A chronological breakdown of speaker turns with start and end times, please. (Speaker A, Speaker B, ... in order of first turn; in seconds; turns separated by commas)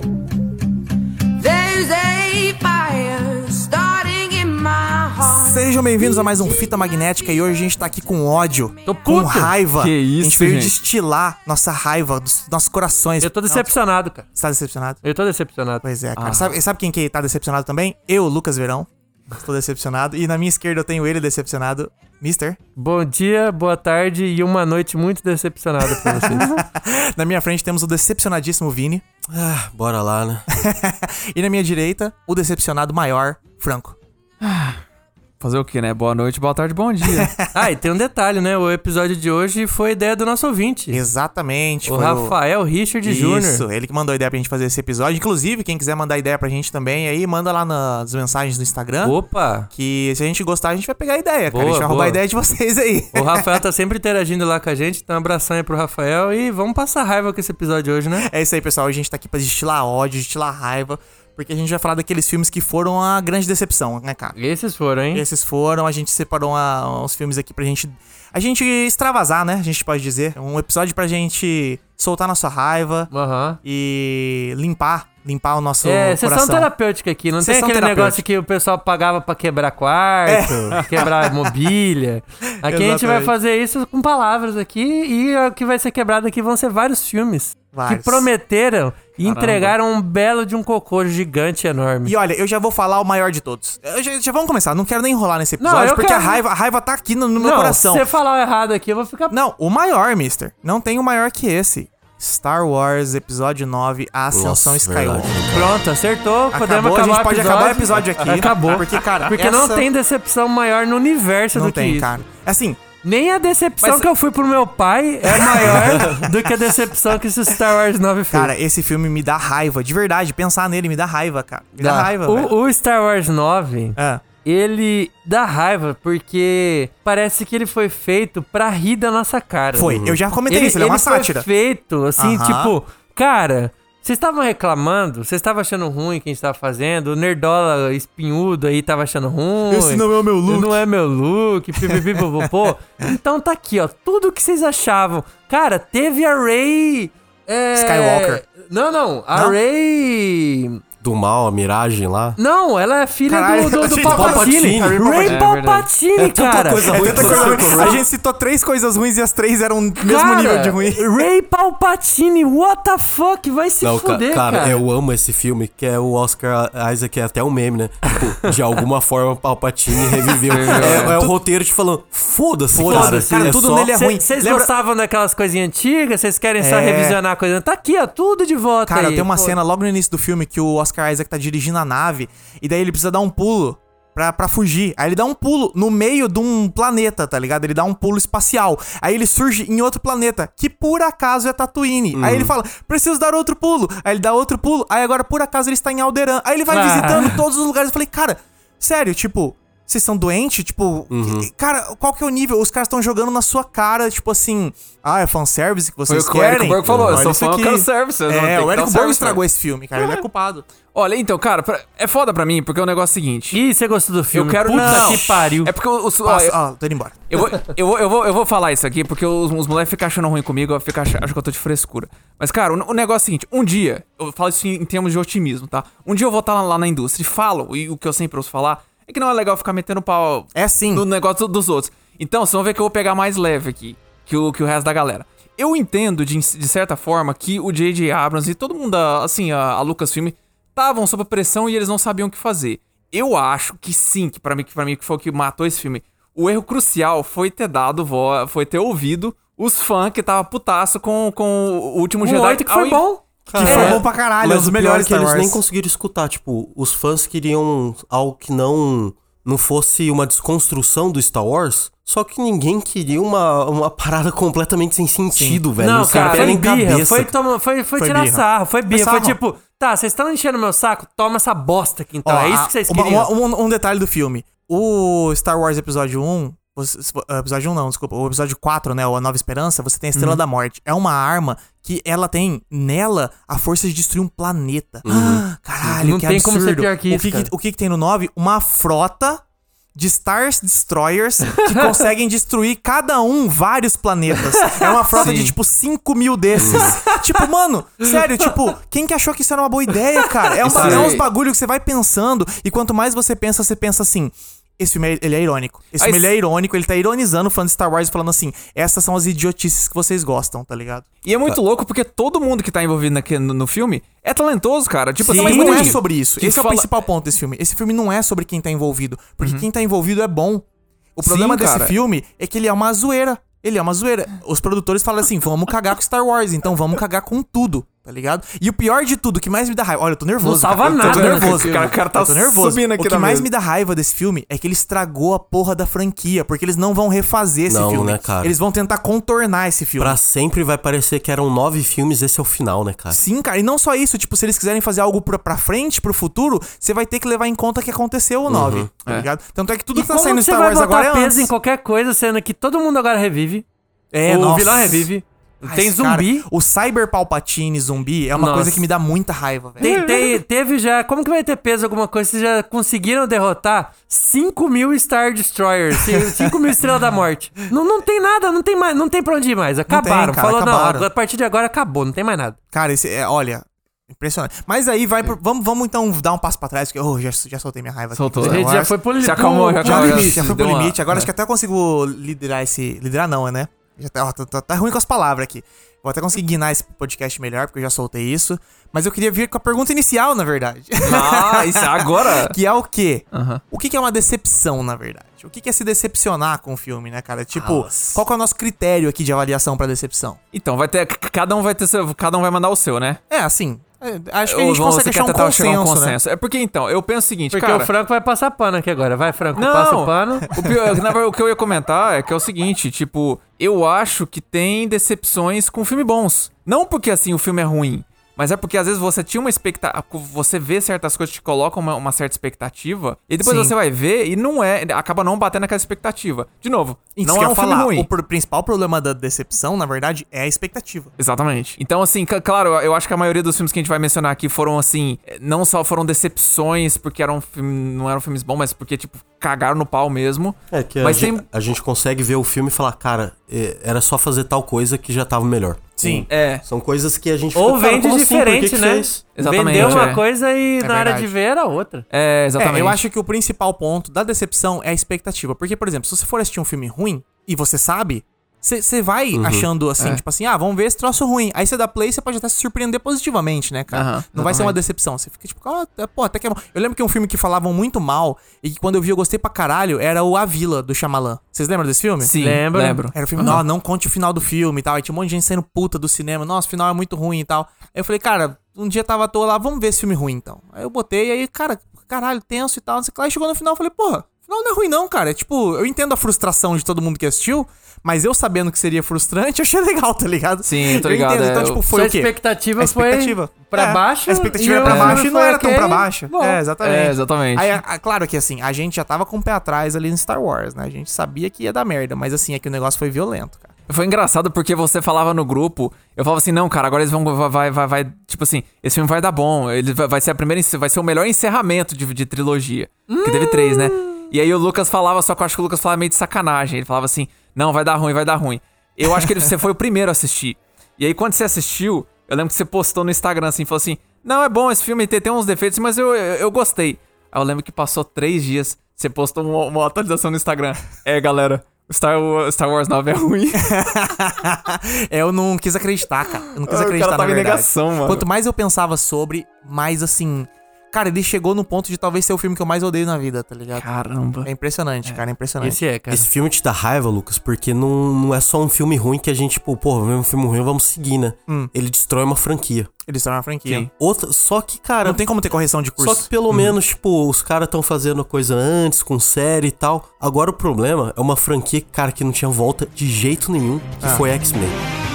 Speaker A: 1.3-5.4, Speaker B: 5.3-13.7, Speaker C: 8.8-9.6, Speaker D: 9.8-10.7, Speaker C: 13.2-14.3, Speaker B: 14.3-15.0, Speaker C: 15.0-15.8, Speaker B: 15.8-22.6, Speaker D: 16.1-16.6, Speaker C: 22.8-26.5, Speaker B: 25.9-29.0, Speaker E: 29.3-30.5, Speaker B: 30.5-34.0, Speaker D: 34.4-34.8, Speaker D: 35.4-37.4, Speaker B: 37.0-37.5, Speaker C: 37.5-41.0, Speaker B: 40.9-42.4, Speaker C: 41.8-43.6, Speaker B: 43.0-49.2, Speaker C: 49.0-49.7, Speaker B: 49.7-53.5, Speaker C: 51.5-52.2, Speaker C: 53.1-58.3, Speaker B: 58.2-64.3, Speaker C: 64.3-65.2, Speaker B: 65.1-73.1, Speaker C: 73.1-73.6, Speaker B: 73.6-76.7, Speaker C: 75.8-92.1, Speaker B: 77.4-78.2, Speaker B: 80.3-81.5, Speaker B: 82.6-83.3, Speaker B: 87.7-88.3, Speaker D: 89.2-89.7, Speaker B: 92.0-98.1, Speaker C: 95.6-96.4, Speaker C: 97.3-99.3, Speaker B: 99.3-105.3, Speaker E: 104.3-105.7, Speaker C: 105.5-112.1, Speaker B: 106.5-109.8, Speaker B: 111.5-112.8, Speaker C: 113.0-118.5, Speaker B: 115.3-116.4, Speaker E: 115.7-116.2, Speaker B: 118.3-122.5, Speaker C: 121.8-150.8, Speaker B: 129.7-131.5, Speaker E: 129.9-130.2, Speaker B: 132.2-132.7, Speaker B: 139.7-140.8, Speaker B: 147.8-148.4, Speaker E: 151.0-152.4, Speaker C: 152.4-158.0, Speaker B: 153.3-154.8, Speaker E: 154.0-155.4, Speaker D: 155.2-155.9, Speaker E: 156.1-158.0, Speaker B: 156.9-161.2, Speaker C: 160.0-164.8, Speaker E: 163.8-173.9, Speaker D: 170.5-171.2, Speaker B: 170.9-171.2, Speaker C: 170.9-171.2, Speaker B: 172.7-174.7, Speaker C: 172.8-179.6, Speaker B: 176.6-177.2, Speaker B: 178.9-210.7, Speaker E: 192.1-192.5, Speaker C: 196.7-197.4, Speaker E: 201.1-201.5, Speaker D: 206.1-209.4, Speaker E: 206.8-207.3, Speaker D: 210.0-210.2, Speaker D: 210.9-213.6, Speaker C: 213.5-215.7, Speaker D: 214.3-216.6, Speaker B: 214.7-215.2, Speaker B: 216.2-217.3, Speaker D: 217.3-253.0, Speaker B: 230.5-231.0, Speaker C: 252.2-254.0, Speaker E: 253.5-267.3, Speaker B: 253.6-255.6, Speaker B: 265.3-265.6, Speaker C: 265.8-273.3, Speaker D: 266.1-266.6, Speaker B: 268.0-269.4, Speaker B: 272.2-289.4, Speaker D: 280.1-280.4, Speaker E: 285.0-285.4, Speaker C: 285.8-287.5, Speaker B: 289.9-311.0, Speaker C: 294.6-295.3, Speaker D: 295.1-295.5, Speaker E: 296.6-296.9, Speaker D: 300.6-301.2, Speaker C: 300.6-301.2, Speaker D: 306.0-306.3, Speaker D: 311.2-316.9, Speaker B: 315.2-340.2, Speaker C: 315.2-316.0, Speaker D: 319.4-319.6, Speaker D: 321.2-322.0, Speaker C: 330.4-331.8, Speaker D: 331.0-333.5, Speaker E: 337.7-338.6, Speaker E: 340.0-343.2, Speaker B: 343.1-351.5, Speaker E: 348.5-348.9, Speaker C: 349.9-353.6, Speaker B: 354.1-355.1, Speaker C: 354.3-356.5, Speaker B: 355.6-360.1, Speaker C: 358.3-358.9, Speaker C: 359.8-372.6, Speaker D: 359.8-360.1, Speaker B: 369.9-371.1, Speaker B: 372.7-379.0, Speaker D: 378.1-381.3, Speaker C: 378.4-380.4, Speaker B: 379.8-400.4, Speaker D: 391.0-392.6, Speaker D: 393.3-393.6, Speaker D: 397.5-398.2, Speaker D: 400.5-403.2, Speaker B: 403.3-406.2, Speaker D: 404.4-407.9, Speaker C: 407.5-410.5, Speaker D: 409.5-428.1, Speaker B: 423.4-423.7, Speaker B: 427.1-431.1, Speaker D: 431.2-441.4, Speaker E: 440.7-449.2, Speaker B: 446.0-446.3, Speaker D: 446.3-446.6, Speaker C: 447.6-452.0, Speaker D: 449.4-450.2, Speaker E: 449.8-450.0, Speaker B: 450.8-451.3, Speaker D: 452.1-453.0, Speaker B: 452.6-472.3, Speaker E: 459.3-459.7, Speaker D: 463.9-464.8, Speaker D: 472.2-473.6, Speaker C: 472.4-473.6, Speaker B: 473.1-503.7, Speaker D: 490.6-491.8, Speaker C: 491.9-496.6, Speaker D: 494.8-495.2, Speaker D: 496.8-497.8, Speaker D: 503.9-533.7, Speaker C: 513.1-514.2, Speaker B: 533.6-543.8, Speaker D: 536.6-538.2, Speaker D: 543.7-544.5, Speaker B: 544.4-545.8, Speaker C: 545.6-546.3, Speaker E: 546.1-552.9, Speaker B: 553.1-553.9, Speaker E: 554.0-555.2, Speaker B: 555.0-556.3, Speaker E: 556.0-564.8